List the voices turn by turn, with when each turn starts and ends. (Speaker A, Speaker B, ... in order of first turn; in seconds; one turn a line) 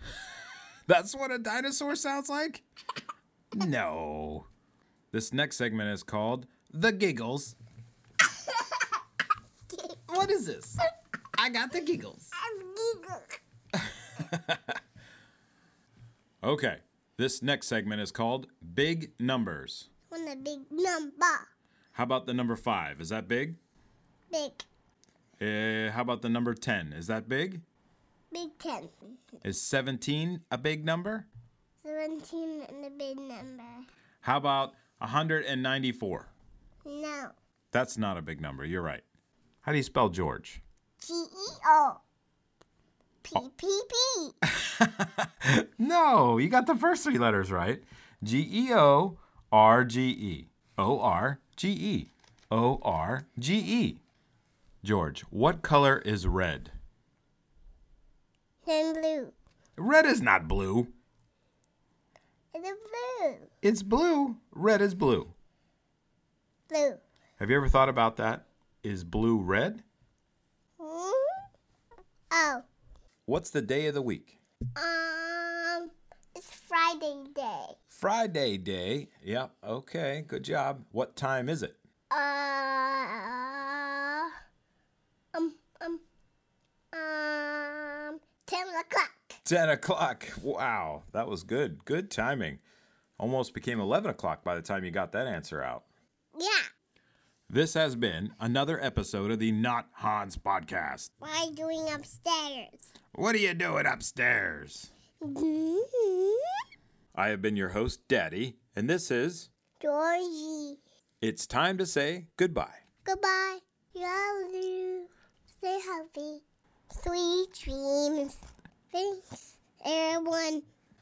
Speaker A: 0.9-2.6
Speaker A: 3.5-4.5
Speaker A: 5.1-7.6
Speaker B: 8.3-8.9
Speaker B: 9.7-10.0
Speaker A: 10.1-10.8
Speaker A: 11.4-12.3
Speaker B: 12.3-13.4
Speaker A: 13.8-14.8
Speaker A: 16.4-19.9
Speaker B: 20.1-21.5
Speaker A: 21.9-23.6
Speaker B: 24.3-24.7
Speaker A: 25.4-27.6
Speaker B: 28.3-29.2
Speaker A: 29.4-31.3
Speaker B: 31.8-33.9
Speaker A: 34.2-36.3
Speaker B: 36.9-37.4
Speaker A: 37.7-39.0
Speaker A: 39.6-40.6
Speaker B: 41.0-42.0
Speaker B: 43.2-44.4
Speaker A: 44.5-54.0
Speaker A: 54.8-56.7
Speaker B: 58.7-59.4
Speaker A: 59.8-60.9
Speaker B: 62.5-63.5
Speaker A: 63.6-65.3
Speaker B: 66.7-67.0
Speaker A: 67.4-69.8
Speaker B: 70.8-71.4
Speaker B: 72.3-72.6
Speaker A: 73.3-74.4
Speaker B: 74.8-77.8
Speaker A: 77.9-81.8
Speaker B: 82.1-84.3
Speaker B: 85.3-86.0
Speaker B: 86.9-89.4
Speaker A: 89.5-92.6
Speaker A: 93.2-95.8
Speaker B: 96.3-96.7
Speaker A: 97.5-101.1
Speaker B: 101.2-102.9
Speaker A: 103.1-104.9
Speaker B: 105.2-106.5
Speaker A: 107.1-109.5
Speaker B: 109.8-110.8
Speaker A: 111.2-112.8
Speaker B: 113.0-118.4
Speaker B: 118.9-120.6